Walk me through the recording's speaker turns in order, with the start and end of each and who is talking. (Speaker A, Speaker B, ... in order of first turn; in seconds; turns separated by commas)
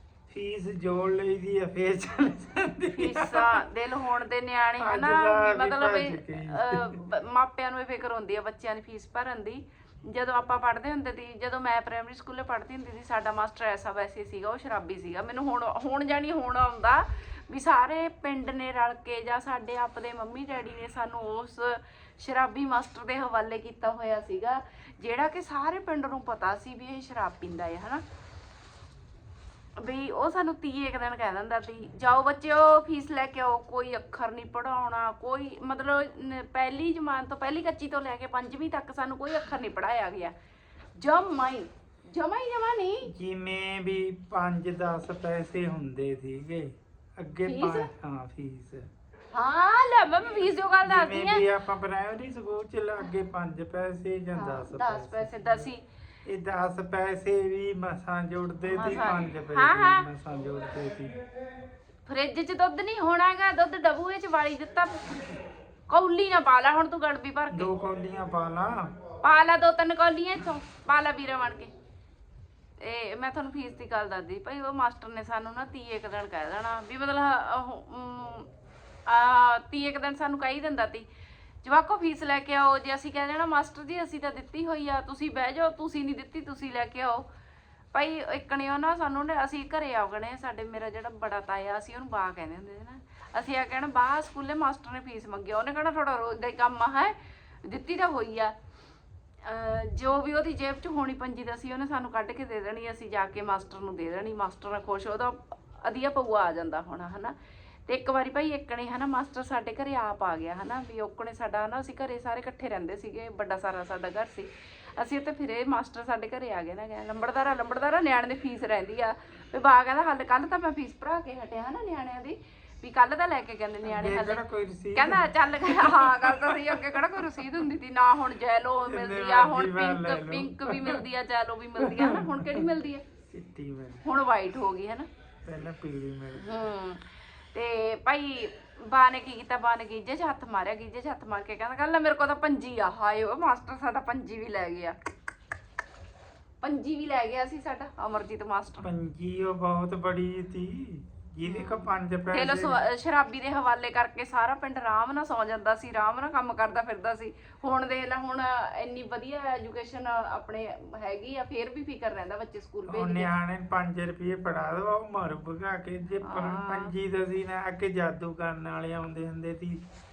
Speaker A: 0.3-3.6, Speaker B: 3.0-28.0, Speaker A: 4.8-7.1, Speaker B: 29.8-40.3, Speaker B: 41.0-43.1, Speaker A: 43.1-48.9, Speaker B: 47.5-47.9, Speaker B: 49.3-51.5, Speaker A: 50.8-55.7, Speaker B: 54.4-55.8, Speaker A: 56.3-61.1, Speaker B: 58.7-60.1, Speaker B: 62.1-65.3, Speaker B: 65.9-67.8, Speaker A: 67.5-68.9, Speaker B: 69.2-71.7, Speaker B: 72.8-78.5, Speaker B: 79.1-81.1, Speaker B: 81.6-87.3, Speaker B: 87.9-98.5, Speaker B: 99.5-107.3, Speaker B: 107.9-124.4, Speaker A: 123.8-127.5, Speaker B: 125.0-133.1, Speaker A: 128.9-131.0, Speaker A: 131.8-132.7, Speaker A: 133.3-134.1, Speaker B: 134.0-135.1, Speaker A: 135.5-136.6, Speaker B: 136.4-144.9, Speaker B: 146.6-148.9, Speaker A: 148.8-152.8, Speaker B: 151.4-163.3, Speaker A: 162.9-169.8, Speaker B: 166.2-166.9